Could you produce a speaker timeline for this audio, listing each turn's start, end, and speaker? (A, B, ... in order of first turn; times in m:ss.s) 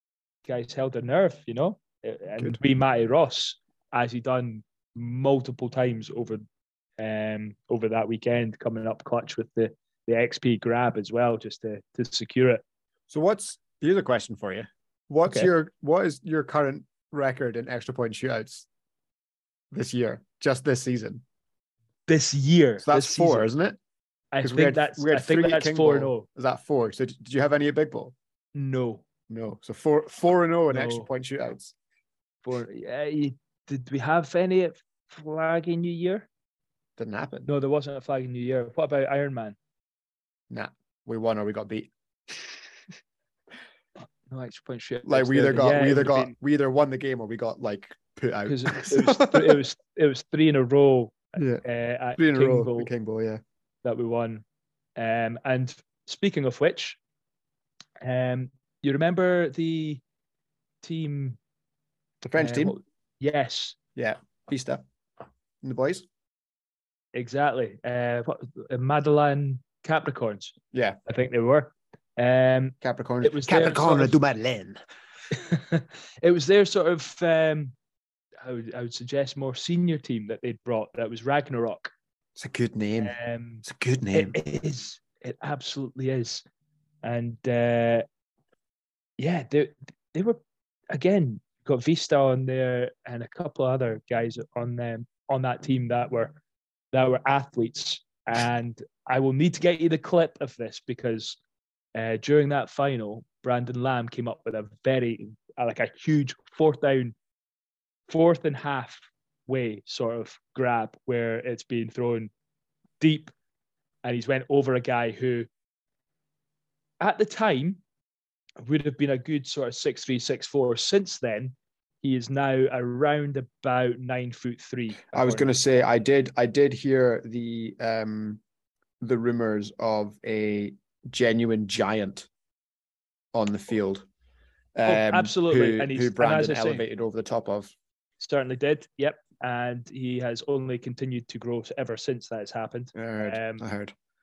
0:00.4-0:06.4 A
0:07.0-0:12.6 A
0:13.1-0:18.7 B
0:19.7-0:21.2 B
0:22.1-0:23.5 A
0:22.8-0:23.8 B
0:24.3-0:26.3 A
0:24.4-0:28.1 B
0:28.5-0:29.0 A
0:29.3-0:31.7 B
0:30.7-0:31.1 A
0:32.4-0:36.3 A
0:37.0-0:37.5 B
0:37.5-0:39.6 A
0:40.5-0:42.8 B
0:44.3-0:46.3 A
0:45.0-0:49.6 B
0:48.5-0:52.9 A
0:51.4-0:51.6 B
0:52.2-0:53.4 B
0:53.8-0:54.4 A
0:55.0-0:57.0 A
0:58.0-1:00.0 A
1:00.8-1:01.4 A
1:02.2-1:02.8 B
1:02.4-1:03.8 A
1:04.0-1:04.8 B
1:05.6-1:06.0 B
1:07.1-1:14.2 A
1:10.7-1:11.0 B
1:12.8-1:14.8 B
1:15.3-1:17.7 A
1:18.4-1:21.9 A
1:22.4-1:24.3 B
1:23.0-1:26.4 A
1:27.0-1:28.0 A
1:29.2-1:30.4 A
1:30.9-1:36.4 A
1:36.9-1:41.4 A
1:41.9-1:47.1 A
1:48.1-1:52.3 A
1:53.0-1:53.3 A
1:54.0-1:55.5 A
1:57.0-1:57.8 A
1:58.6-2:05.5 A
2:05.1-2:08.4 B
2:09.0-2:12.3 B
2:13.3-2:14.0 B
2:14.8-2:17.7 B
2:14.8-2:16.8 A
2:18.2-2:23.6 A
2:22.9-2:23.9 B